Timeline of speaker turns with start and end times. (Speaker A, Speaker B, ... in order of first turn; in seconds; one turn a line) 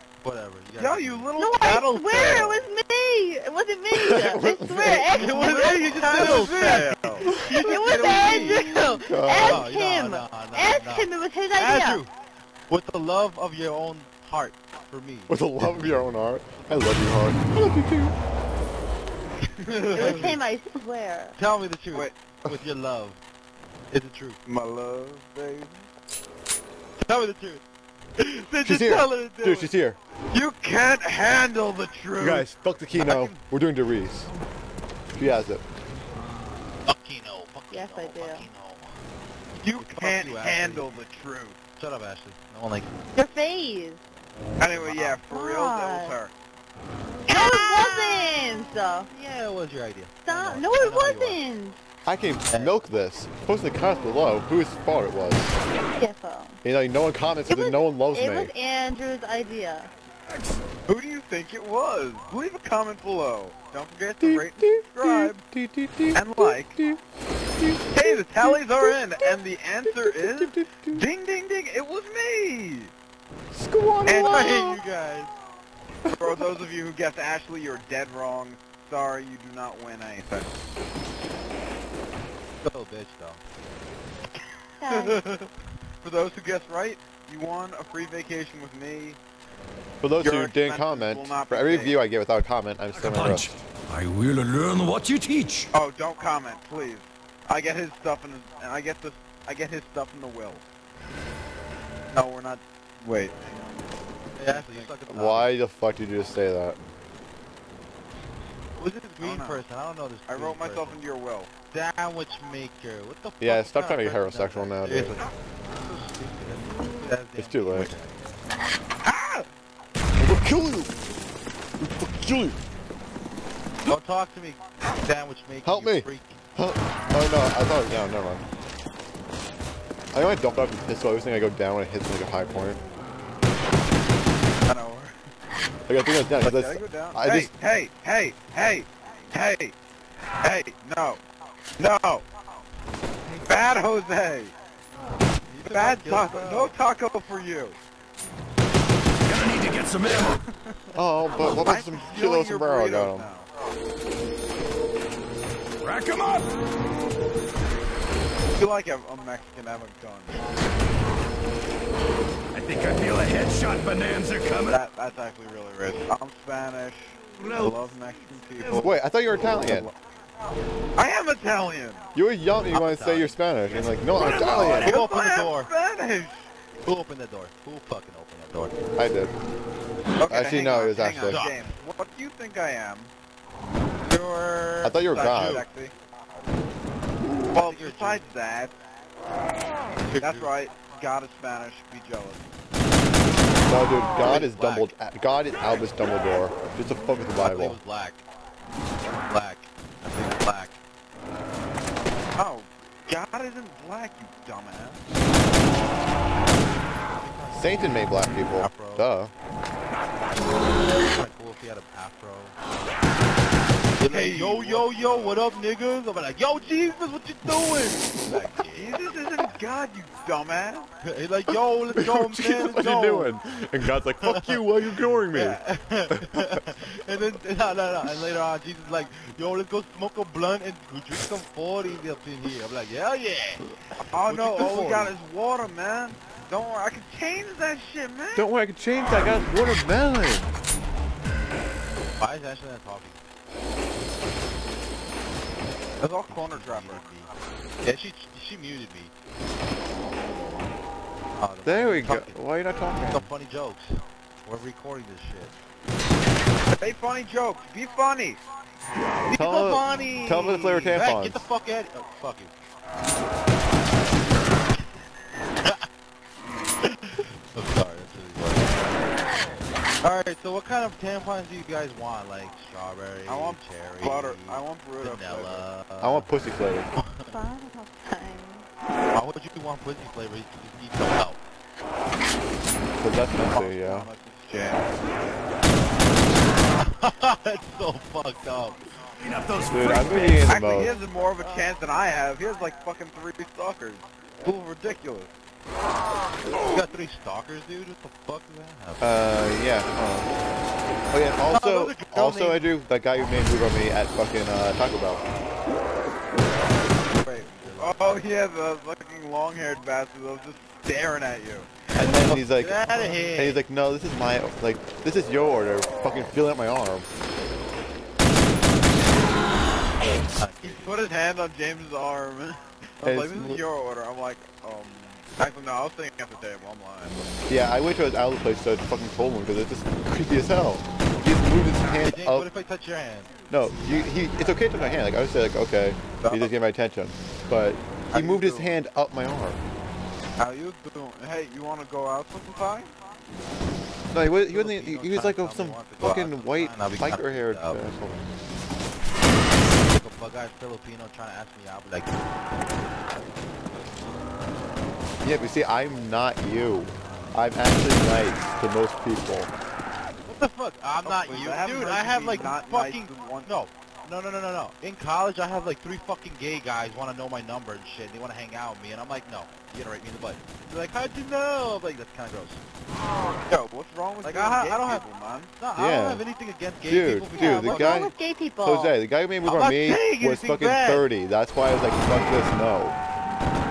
Speaker A: 0.2-1.3
Speaker B: 0.8-2.6
Speaker C: 1.4-12.0
Speaker D: 3.9-5.1
Speaker A: 5.1-8.7
Speaker B: 5.2-8.8
Speaker D: 8.9-9.7
Speaker A: 9.3-12.0
Speaker B: 11.6-12.0
Speaker A: 12.7-16.0
Speaker D: 15.3-18.1
Speaker A: 19.6-20.4
Speaker B: 19.8-20.3
Speaker C: 19.9-21.4
Speaker A: 21.4-23.2
Speaker A: 23.9-24.4
Speaker B: 24.4-25.9
Speaker A: 27.0-27.6
Speaker B: 28.2-29.1
Speaker A: 28.6-29.7
Speaker D: 28.6-30.0
Speaker B: 30.3-33.4
Speaker D: 32.2-34.3
Speaker D: 35.1-35.6
Speaker A: 36.9-38.9
Speaker C: 37.7-38.5
Speaker B: 39.6-41.6
Speaker A: 39.8-40.9
Speaker A: 41.8-42.9
Speaker C: 43.1-44.0
Speaker B: 44.6-46.3
Speaker A: 44.7-45.2
Speaker C: 45.3-46.2
Speaker C: 47.3-49.1
Speaker A: 47.3-48.4
Speaker A: 49.0-51.4
Speaker C: 50.2-51.8
Speaker D: 52.0-55.6
Speaker A: 52.5-52.7
Speaker C: 56.0-56.6
Speaker D: 56.6-58.5
Speaker C: 57.5-59.9
Speaker B: 60.9-65.4
Speaker D: 64.2-67.0
Speaker B: 66.1-66.8
Speaker D: 67.6-69.3
Speaker B: 67.9-72.9
Speaker D: 69.8-71.0
Speaker D: 73.5-74.8
Speaker B: 74.0-74.7
Speaker A: 74.1-75.3
Speaker D: 76.0-76.6
Speaker B: 76.2-80.5
Speaker A: 82.6-83.4
Speaker C: 84.8-85.2
Speaker B: 84.8-85.5
Speaker B: 86.0-89.2
Speaker D: 90.0-93.5
Speaker B: 90.2-92.0
Speaker E: 92.9-95.7
Speaker B: 95.7-100.6
Speaker B: 102.1-103.6
Speaker A: 104.3-105.5
Speaker B: 104.5-104.9
Speaker D: 105.1-106.8
Speaker A: 108.8-111.0
Speaker B: 109.2-109.6
Speaker B: 110.3-111.5
Speaker A: 111.7-118.2
Speaker D: 113.4-115.2
Speaker D: 117.4-117.9
Speaker B: 119.0-119.5
Speaker D: 120.2-120.9
Speaker D: 121.8-122.6
Speaker A: 123.8-126.4
Speaker D: 125.6-128.4
Speaker D: 130.1-132.8
Speaker B: 134.7-135.2
Speaker D: 135.9-137.5
Speaker B: 136.4-139.7
Speaker B: 140.4-141.2
Speaker B: 141.8-142.2
Speaker B: 143.5-144.5
Speaker A: 145.5-146.7
Speaker B: 145.7-147.8
Speaker E: 149.2-150.4
Speaker D: 150.9-153.3
Speaker B: 151.4-153.5
Speaker E: 155.8-156.5
Speaker B: 158.6-160.4
Speaker E: 162.5-164.8
Speaker B: 164.7-169.9
Speaker D: 168.8-169.9
Speaker B: 171.0-172.0
Speaker D: 172.1-175.0
Speaker A: 172.7-173.4
Speaker E: 174.1-174.9
Speaker A: 174.8-175.7
Speaker B: 174.8-176.5
Speaker A: 176.8-178.8
Speaker D: 178.9-179.3
Speaker B: 180.2-183.1
Speaker D: 180.3-181.4
Speaker A: 181.2-181.7
Speaker A: 184.0-185.6
Speaker D: 184.8-185.6
Speaker B: 185.1-185.9
Speaker A: 187.5-188.2
Speaker B: 187.5-188.7
Speaker A: 190.0-190.5
Speaker B: 190.2-192.5
Speaker D: 193.6-197.8
Speaker A: 194.2-194.9
Speaker A: 197.4-198.2
Speaker A: 199.3-200.8
Speaker B: 202.3-205.0
Speaker A: 207.0-209.1
Speaker D: 207.5-209.3
Speaker A: 211.1-212.6
Speaker A: 214.0-218.9
Speaker B: 214.1-215.4
Speaker B: 218.3-220.9
Speaker A: 221.0-223.4
Speaker D: 221.9-225.6
Speaker A: 224.2-224.6
Speaker A: 225.3-235.1
Speaker D: 226.1-226.6
Speaker B: 234.0-238.5
Speaker D: 238.3-240.5
Speaker A: 242.2-243.2
Speaker B: 246.0-247.1
Speaker A: 246.3-247.3
Speaker A: 247.8-249.1
Speaker C: 250.2-250.7
Speaker A: 251.4-255.5
Speaker D: 251.6-253.3
Speaker B: 256.7-258.4
Speaker A: 259.3-262.5
Speaker D: 259.3-261.5
Speaker C: 259.7-260.4
Speaker A: 265.6-265.9
Speaker A: 266.8-268.7
Speaker A: 270.0-276.3
Speaker B: 273.3-275.6
Speaker D: 276.0-276.9
Speaker A: 276.9-277.4
Speaker C: 277.2-278.6
Speaker A: 279.1-281.4
Speaker D: 283.0-284.1
Speaker B: 283.4-284.9
Speaker A: 286.8-288.8
Speaker E: 289.2-290.7
Speaker D: 289.7-290.9
Speaker B: 290.5-295.3
Speaker C: 290.6-291.7
Speaker A: 296.7-299.1
Speaker D: 299.0-300.3
Speaker D: 301.1-305.2
Speaker A: 301.5-302.7
Speaker B: 307.2-311.7
Speaker A: 307.2-308.3
Speaker D: 311.9-317.1
Speaker A: 312.2-313.6
Speaker A: 320.4-321.1
Speaker B: 320.6-327.2
Speaker D: 323.0-323.6
Speaker D: 327.5-332.5
Speaker A: 332.0-333.3
Speaker D: 333.5-339.6
Speaker B: 336.2-336.5
Speaker B: 338.1-338.7
Speaker B: 340.4-342.9
Speaker D: 344.1-348.3
Speaker A: 344.5-347.8
Speaker A: 349.9-352.1
Speaker D: 355.2-359.5
Speaker A: 360.2-372.6
Speaker B: 361.0-363.5
Speaker B: 373.5-375.5
Speaker A: 374.2-375.1
Speaker A: 375.6-378.0
Speaker D: 375.8-376.2
Speaker D: 376.8-383.0
Speaker C: 377.3-379.0
Speaker A: 379.4-381.1